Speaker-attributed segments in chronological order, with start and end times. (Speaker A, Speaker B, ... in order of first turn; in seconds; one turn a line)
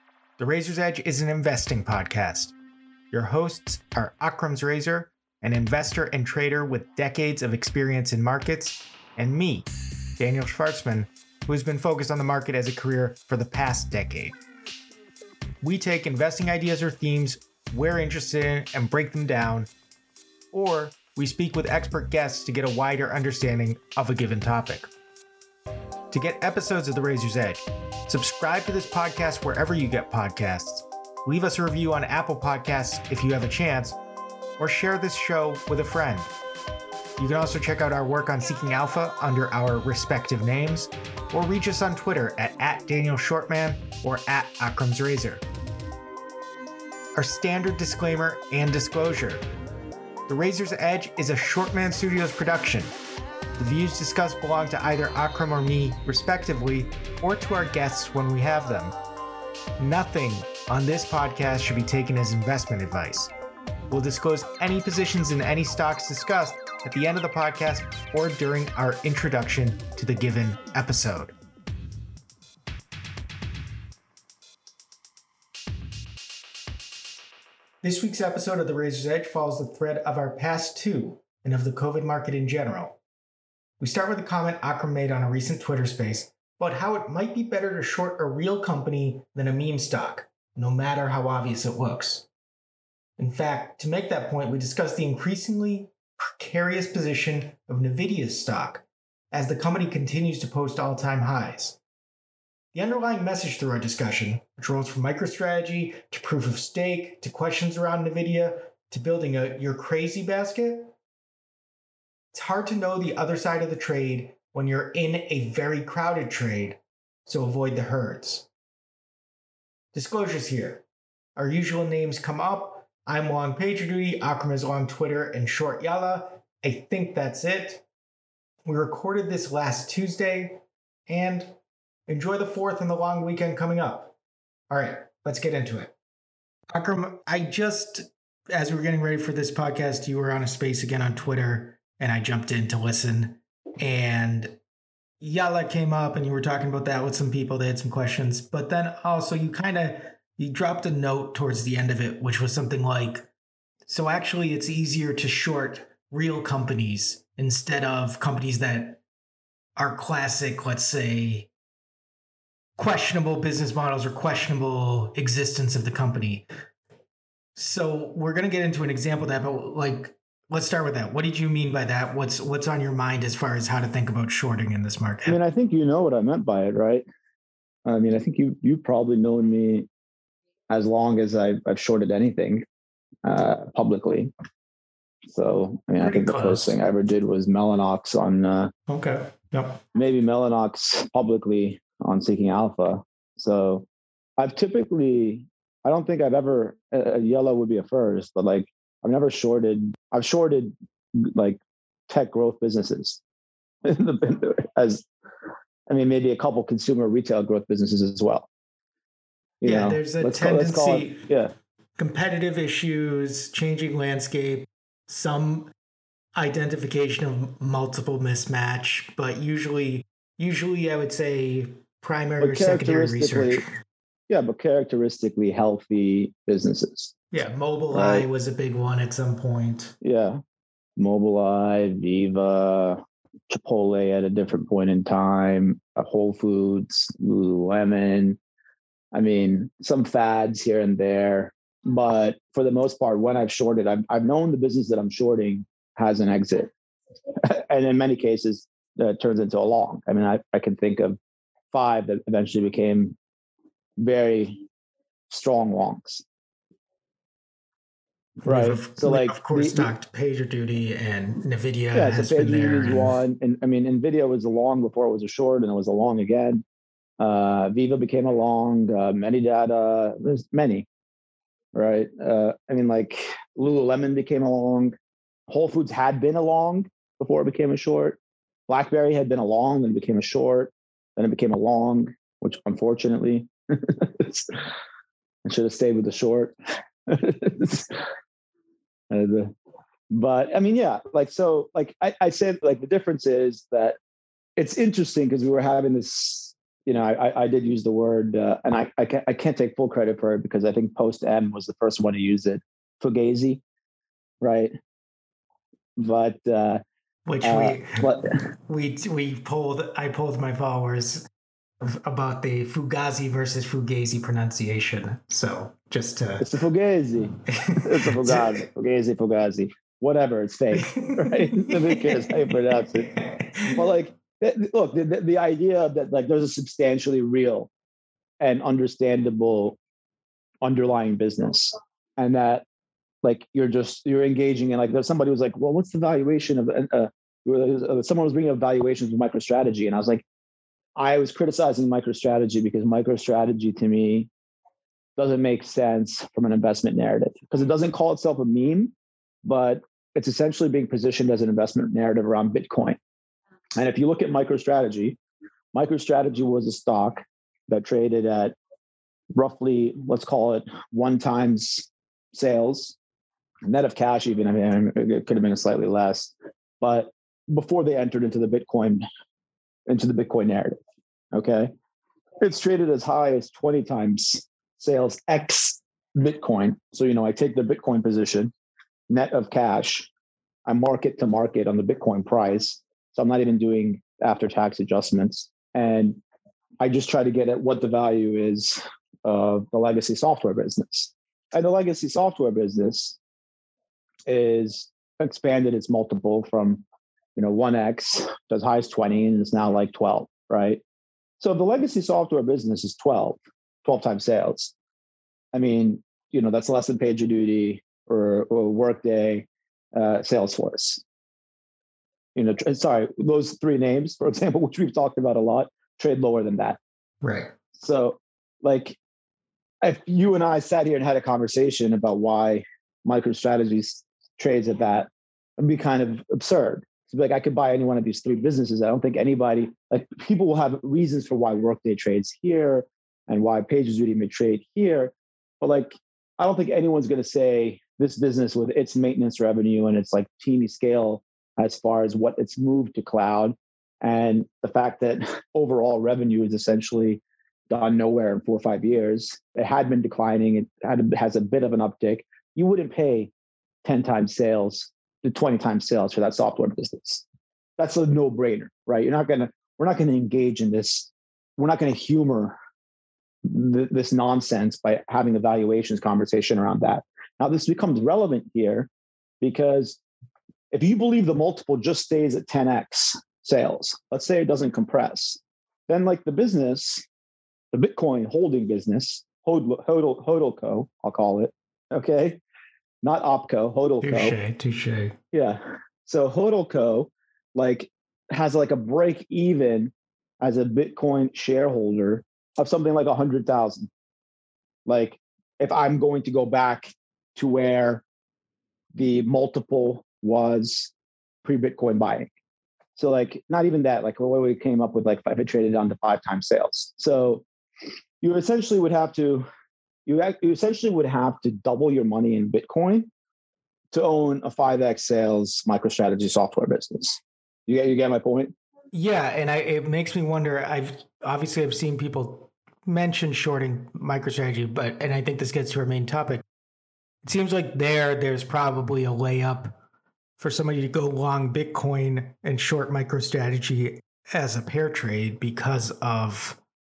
Speaker A: 0.4-2.5
Speaker A: 3.1-9.7
Speaker A: 10.2-14.3
Speaker A: 15.6-19.7
Speaker A: 20.5-24.9
Speaker A: 26.1-34.0
Speaker A: 34.6-36.3
Speaker A: 37.2-45.4
Speaker A: 47.1-49.5
Speaker A: 50.3-52.9
Speaker A: 53.6-59.0
Speaker A: 59.8-63.3
Speaker A: 63.9-71.3
Speaker A: 77.8-83.0
Speaker A: 83.8-92.3
Speaker A: 93.2-101.8
Speaker A: 102.7-110.9
Speaker A: 112.3-118.5
Speaker A: 119.9-120.8
Speaker A: 121.3-127.8
Speaker A: 128.6-131.6
Speaker A: 132.1-134.1
Speaker A: 134.7-135.9
Speaker A: 136.7-144.6
Speaker A: 145.2-153.3
Speaker A: 153.9-159.0
Speaker A: 159.8-161.5
Speaker A: 162.8-166.5
Speaker A: 167.6-175.4
Speaker B: 175.2-177.1
Speaker B: 177.8-179.9
Speaker B: 180.7-182.6
Speaker B: 183.2-184.3
Speaker B: 185.3-188.7
Speaker A: 186.0-186.8
Speaker A: 188.9-189.8
Speaker B: 189.9-193.8
Speaker B: 194.4-203.2
Speaker B: 203.8-205.1
Speaker B: 205.9-208.5
Speaker B: 209.6-211.5
Speaker A: 209.6-211.3
Speaker A: 212.0-215.7
Speaker A: 216.3-223.7
Speaker B: 222.4-223.6
Speaker B: 224.3-227.1
Speaker A: 227.3-229.9
Speaker B: 227.9-228.2
Speaker B: 230.0-230.4
Speaker B: 231.0-238.4
Speaker B: 239.1-246.7
Speaker B: 247.4-251.2
Speaker B: 251.7-253.1
Speaker B: 254.0-254.6
Speaker B: 255.3-256.2
Speaker B: 258.4-259.9
Speaker A: 258.4-263.2
Speaker B: 261.9-266.6
Speaker B: 267.2-270.9
Speaker B: 271.7-274.9
Speaker B: 275.5-284.6
Speaker B: 285.4-286.5
Speaker B: 287.1-288.1
Speaker B: 289.1-289.5
Speaker B: 290.1-294.0
Speaker B: 294.6-303.6
Speaker B: 304.4-304.7
Speaker B: 306.0-306.8
Speaker A: 307.2-308.0
Speaker B: 307.4-308.3
Speaker A: 308.7-311.3
Speaker A: 311.8-316.5
Speaker B: 316.4-323.1
Speaker A: 317.5-318.6
Speaker A: 320.7-323.8
Speaker B: 323.7-327.7
Speaker B: 328.4-329.8
Speaker B: 330.6-332.6
Speaker B: 333.2-340.2
Speaker B: 340.9-344.3
Speaker B: 345.2-348.9
Speaker B: 349.4-353.0
Speaker B: 353.8-355.2
Speaker B: 355.7-358.5
Speaker B: 359.3-363.0
Speaker B: 363.6-369.0
Speaker B: 369.9-370.8
Speaker B: 371.3-371.7
Speaker B: 372.4-378.5
Speaker B: 379.1-380.1
Speaker B: 380.6-386.2
Speaker B: 386.8-393.2
Speaker B: 394.3-396.8
Speaker B: 397.4-400.8
Speaker B: 401.4-404.7
Speaker B: 405.5-411.0
Speaker B: 412.3-416.8
Speaker A: 417.2-417.5
Speaker B: 417.7-419.0
Speaker B: 419.8-453.3
Speaker B: 453.8-457.2
Speaker B: 457.8-462.6
Speaker B: 463.4-468.9
Speaker B: 469.4-470.0
Speaker B: 470.7-477.0
Speaker B: 477.7-482.4
Speaker B: 483.0-484.4
Speaker A: 484.0-485.2
Speaker B: 485.3-493.9
Speaker B: 494.9-498.0
Speaker B: 498.9-500.9
Speaker B: 501.4-502.3
Speaker B: 502.9-507.4
Speaker B: 508.2-509.4
Speaker B: 510.1-513.1
Speaker B: 513.9-518.5
Speaker A: 518.9-526.4
Speaker A: 527.2-529.8
Speaker A: 530.4-536.6